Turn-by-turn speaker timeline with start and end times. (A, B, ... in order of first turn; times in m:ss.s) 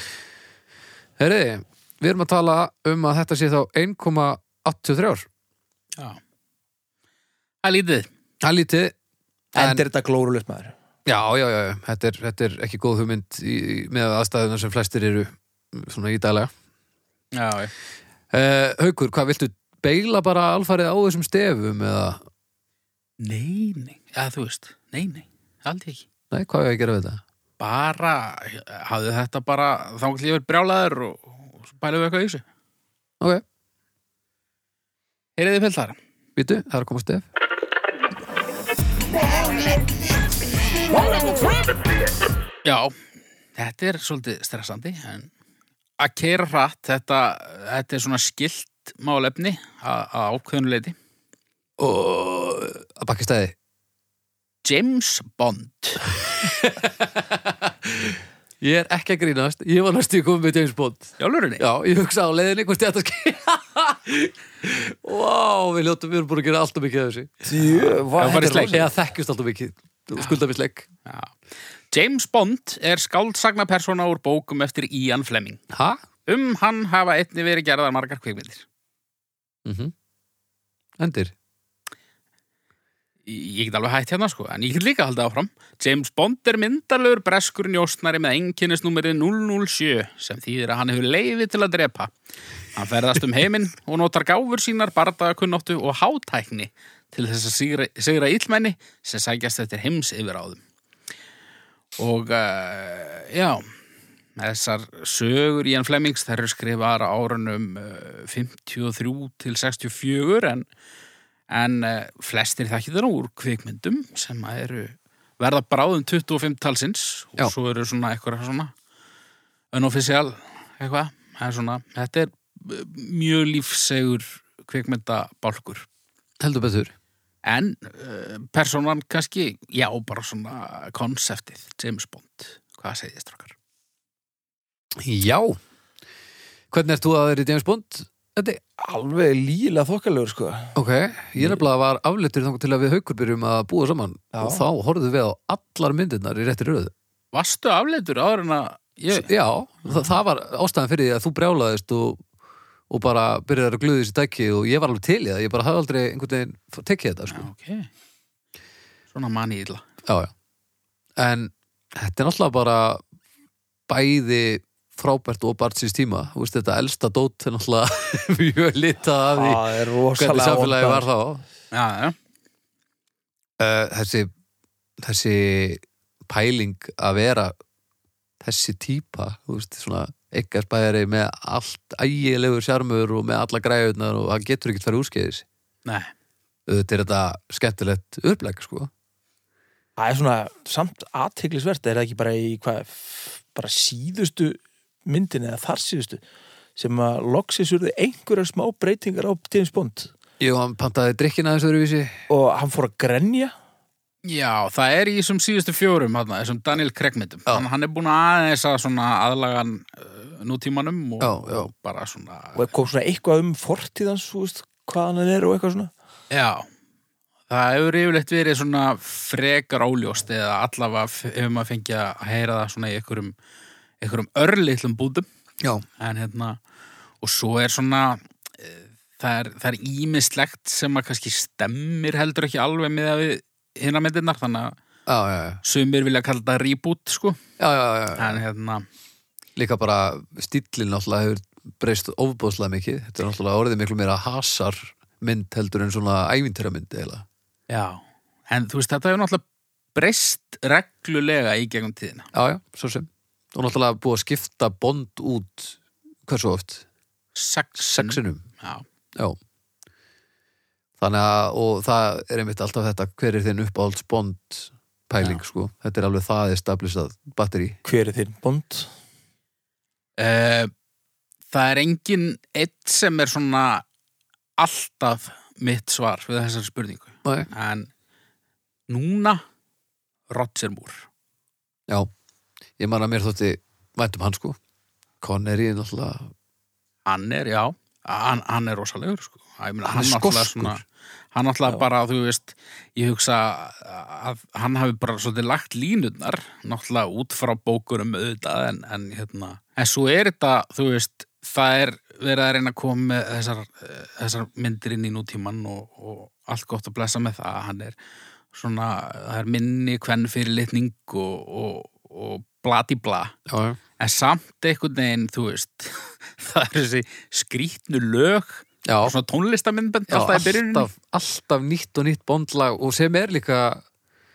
0:01.2-0:05.3 A
0:07.6-0:08.1 B
0:08.4-0:08.9 A
0:09.5-0:10.7 C
0:09.6-0:09.8 A
0:11.0-0:16.5 A
0:17.3-0:17.7 B
0:18.3-0:22.2 A
0:23.2-0:26.0 B
0:26.3-0:27.2 A
0:27.6-0:32.4 B
0:35.4-0:36.0 B
0:36.4-0:37.3 A
0:42.6-0:42.9 B
0:43.6-0:45.3 B
0:46.0-0:51.0 B
0:51.8-0:53.5 A
0:54.6-0:56.0 B
0:56.2-1:07.4 A
1:01.2-1:01.6 B
1:07.4-1:08.9 C
1:07.7-1:08.8 B
1:08.7-1:10.9 A
1:11.0-1:11.3 B
1:11.9-1:15.6 B
1:15.7-1:16.0 A
1:16.3-1:18.6 B
1:19.6-1:19.9 A
1:21.0-1:21.3 A
1:23.2-1:32.1 B
1:32.7-1:40.6 B
1:42.0-1:43.6 B
1:44.4-1:50.6 B
1:51.5-1:58.7 B
1:59.7-2:05.9 B
2:06.4-2:06.9 A
2:07.4-2:13.5 B
2:15.0-2:15.6 A
2:16.7-2:18.6 A
2:18.8-2:20.8 C
2:20.7-2:26.9 A
2:24.3-2:24.6 C
2:27.3-2:29.3 B
2:29.1-2:32.2 A
2:32.9-2:37.5 A
2:37.3-2:37.9 B
2:39.1-2:39.8 B
2:40.0-2:40.3 A
2:41.2-2:43.0 A
2:43.9-2:51.4 A
2:49.2-2:51.0 C
2:51.7-2:52.2 B
2:53.6-2:54.3 A
2:55.0-2:57.5 A
2:58.4-3:05.4 A
3:05.8-3:06.1 B
3:06.7-3:08.9 A
3:10.0-3:16.2 C
3:16.8-3:20.1 C
3:20.4-3:22.2 A
3:22.3-3:23.5 C
3:24.2-3:32.6 B
3:31.2-3:31.7 A
3:32.5-3:35.9 C
3:36.3-3:36.7 B
3:37.5-3:43.3 B
3:44.0-3:45.2 B
3:46.0-3:46.6 B
3:47.2-3:54.8 B
3:55.1-3:55.6 A
3:55.6-3:57.4 B
3:57.6-3:58.4 A
3:58.2-3:58.8 B
3:59.6-4:07.2 A
4:07.7-4:09.4 B
4:09.9-4:12.3 B
4:12.3-4:16.8 A
4:17.3-4:18.8 B
4:17.8-4:18.4 A
4:21.0-4:27.8 A
4:27.8-4:28.9 C
4:30.2-4:30.7 B
4:31.5-4:33.8 B
4:34.6-4:37.9 B
4:38.9-4:39.4 B
4:40.3-4:41.1 B
4:42.8-4:44.6 A
4:45.2-4:46.3 A
4:47.0-4:50.8 B
4:49.8-4:50.8 A
4:51.3-5:08.0 B
5:08.5-5:13.3 B
5:13.5-5:13.8 A
5:14.0-5:20.9 B
5:18.8-5:19.1 A
5:20.1-5:23.8 A